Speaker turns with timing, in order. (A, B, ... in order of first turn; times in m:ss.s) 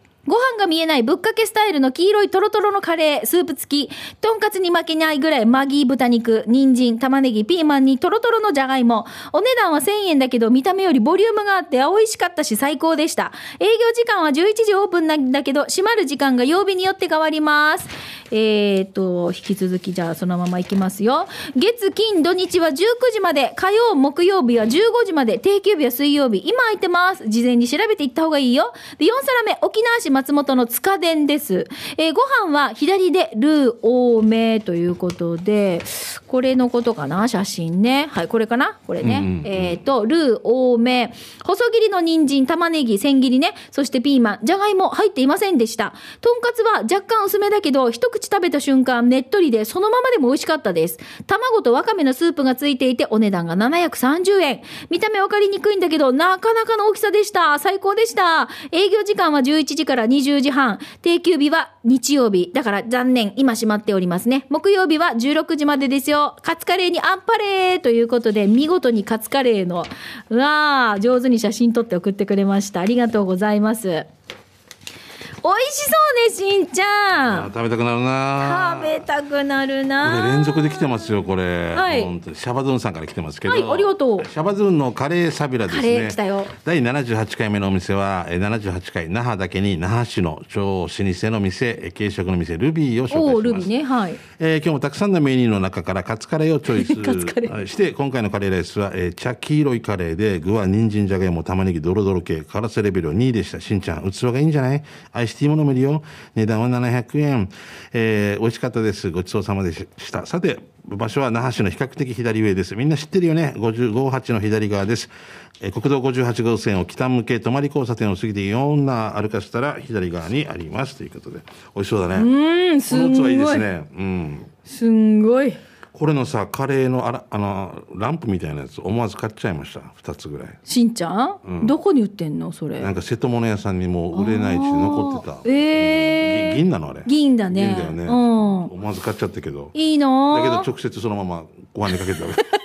0:00.2-1:14.1 A
0:39.0-0:39.8 B
1:15.4-1:17.5 A
1:17.3-1:19.0 B
1:18.4-1:21.1 A
1:20.0-1:33.7 B
1:21.7-1:22.1 A
1:23.4-1:24.3 A
1:25.7-1:26.5 A
1:33.1-1:34.2 A
1:34.4-2:02.3 B
1:36.7-1:37.6 A
2:02.2-2:03.6 A
2:02.9-2:04.5 B
2:04.6-2:05.6 A
2:05.9-2:10.6 B
2:10.6-2:12.9 A
2:11.4-2:11.7 B
2:12.8-2:19.7 B
2:14.1-2:18.7 A
2:19.7-2:20.7 A
2:20.3-2:22.5 B